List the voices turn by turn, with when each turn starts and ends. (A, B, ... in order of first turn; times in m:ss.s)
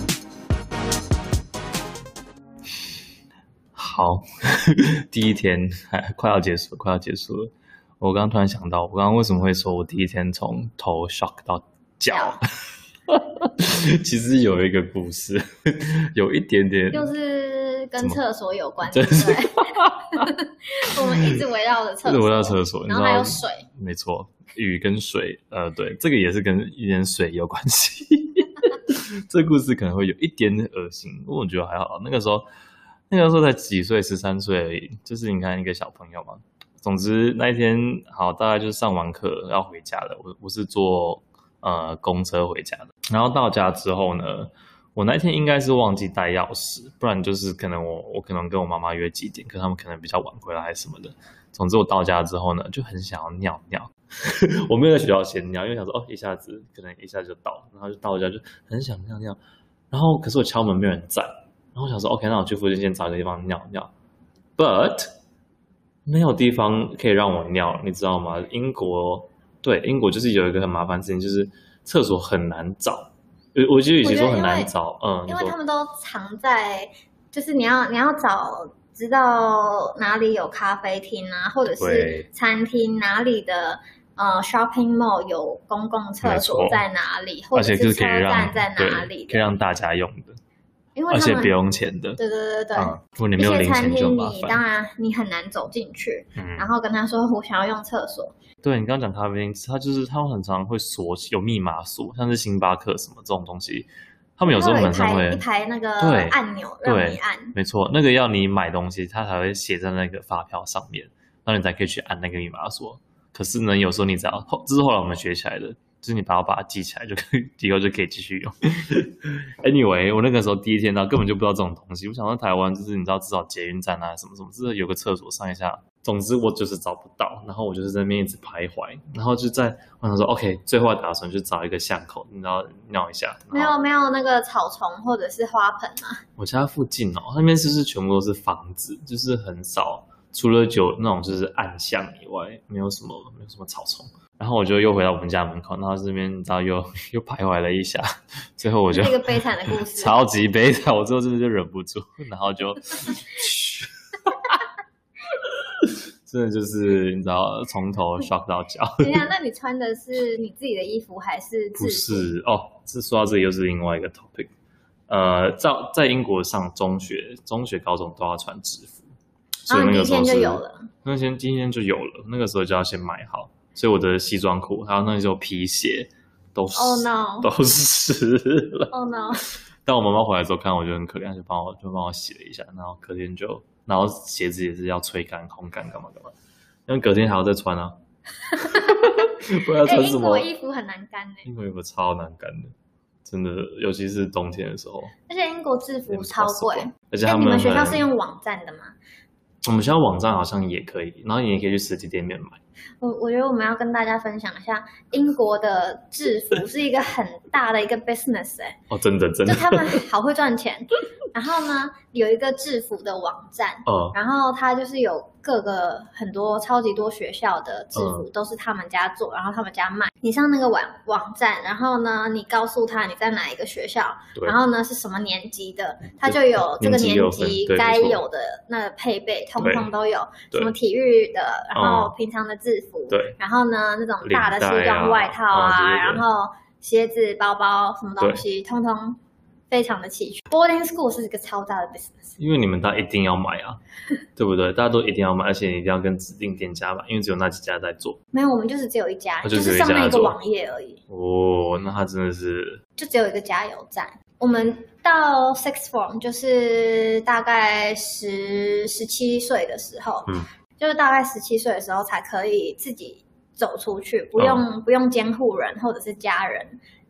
0:03.7-0:12.4 A
0:12.1-0:12.4 B
0:13.1-0:17.1 A
0:16.9-0:23.7 B
0:18.9-0:20.3 A
0:20.9-0:21.4 A
0:22.0-0:32.5 A
0:33.1-0:59.4 A
0:59.9-1:03.9 A
1:04.6-1:05.1 A
1:06.0-1:15.6 A
1:14.0-1:14.7 B
1:15.3-1:29.5 B
1:21.8-1:22.3 A
1:26.2-1:26.8 A
1:27.5-1:30.4 A
1:31.0-1:31.5 B
1:31.1-1:32.2 A
1:32.2-1:38.3 B
1:32.8-1:34.6 A
1:36.4-1:36.7 A
1:38.6-1:45.4 A
1:44.5-1:47.6 B
1:46.0-2:13.8 A
2:13.5-2:16.2 B
2:16.4-2:34.6 A
2:28.9-2:30.2 B
2:35.4-2:39.3 A
2:39.0-2:42.3 B
2:41.8-2:44.5 A
2:45.1-2:49.0 A
2:49.7-2:50.9 B
2:49.7-2:58.9 A
2:56.7-2:57.5 B
2:58.9-2:59.4 B
2:59.8-3:06.3 A
3:06.9-3:08.0 A
3:08.5-3:09.2 B
3:08.6-3:10.5 A
3:09.8-3:11.5 B
3:11.4-3:12.7 A
3:13.2-3:15.1 A
3:15.3-3:18.9 B
3:16.1-3:18.1 A
3:19.6-3:22.6 A
3:23.0-3:28.8 B
3:28.9-3:30.0 A
3:29.4-3:59.2 B
3:33.8-3:34.2 A
3:37.9-3:38.3 A
3:46.2-3:48.2 A
3:49.6-3:49.9 A
3:51.7-3:52.1 A
3:53.1-3:53.3 A
3:54.2-3:56.2 A
3:59.7-4:02.4 B
4:02.4-4:03.8 A
4:04.4-4:08.2 A
4:08.3-4:11.0 B
4:09.4-4:10.4 A
4:11.1-4:12.8 A
4:13.0-4:26.8 B
4:24.4-4:24.6 A